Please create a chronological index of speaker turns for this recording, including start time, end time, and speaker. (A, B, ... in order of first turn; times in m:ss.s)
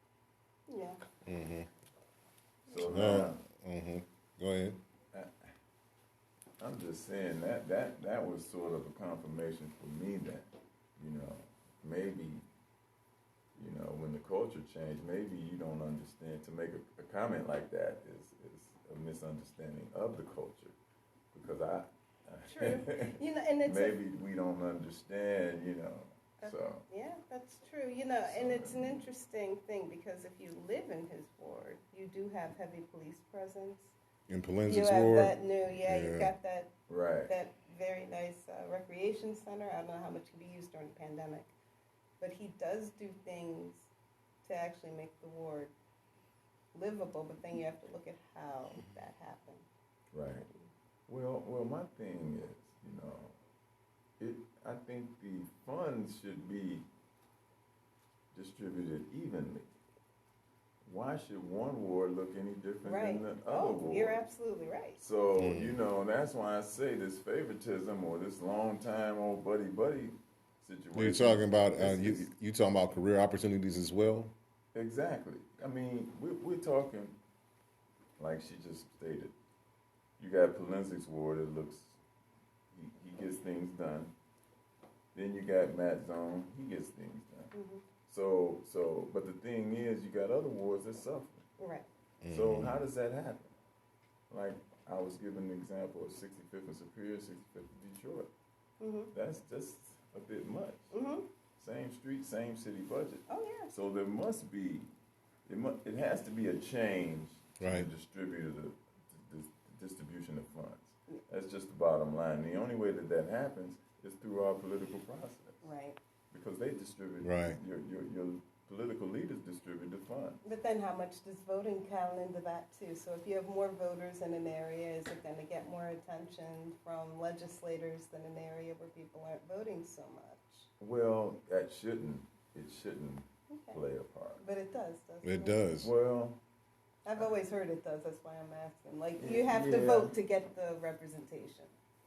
0:00.7-0:01.0 A
0:01.2-0:01.7 B
0:02.7-0:03.4 C
0:02.8-0:04.8 B
0:05.1-0:05.4 C
0:06.6-0:12.4 C
0:13.5-0:20.8 C
0:21.3-0:26.8 C
0:22.5-0:24.0 A
0:26.4-0:33.9 A
0:28.2-0:29.0 C
0:34.3-0:36.3 B
0:34.6-0:36.7 A
0:36.9-0:37.3 C
0:37.3-0:41.5 A
0:42.2-0:43.9 A
0:44.4-0:45.7 A
0:46.7-0:49.6 A
0:50.1-0:50.5 C
0:51.1-0:53.4 C
0:54.2-0:56.8 C
0:58.3-0:59.7 C
1:00.8-1:04.2 C
1:02.8-1:05.0 A
1:05.0-1:12.3 C
1:05.4-1:05.8 B
1:10.9-1:14.3 B
1:14.7-1:17.2 C
1:18.2-1:19.3 C
1:20.2-1:22.0 C
1:22.7-1:24.1 C
1:25.1-1:27.5 C
1:27.5-1:27.8 A
1:28.0-1:31.4 C
1:31.6-1:31.8 A
1:32.2-1:32.7 B
1:32.3-1:33.5 C
1:34.3-1:38.3 C
1:38.8-1:39.1 A
1:39.1-1:40.9 C
1:40.9-1:41.2 A
1:41.6-1:44.9 C
1:43.3-1:43.7 A
1:45.4-1:55.7 C
1:47.6-1:47.9 B
1:55.6-1:56.0 A
1:56.3-2:00.4 C
1:57.2-1:57.6 B
2:00.4-2:10.6 A
2:10.8-2:14.4 C
2:13.5-2:13.8 A
2:14.4-2:15.6 A
2:15.2-2:15.9 B
2:15.8-2:16.4 C
2:17.0-2:21.7 A
2:19.2-2:20.1 C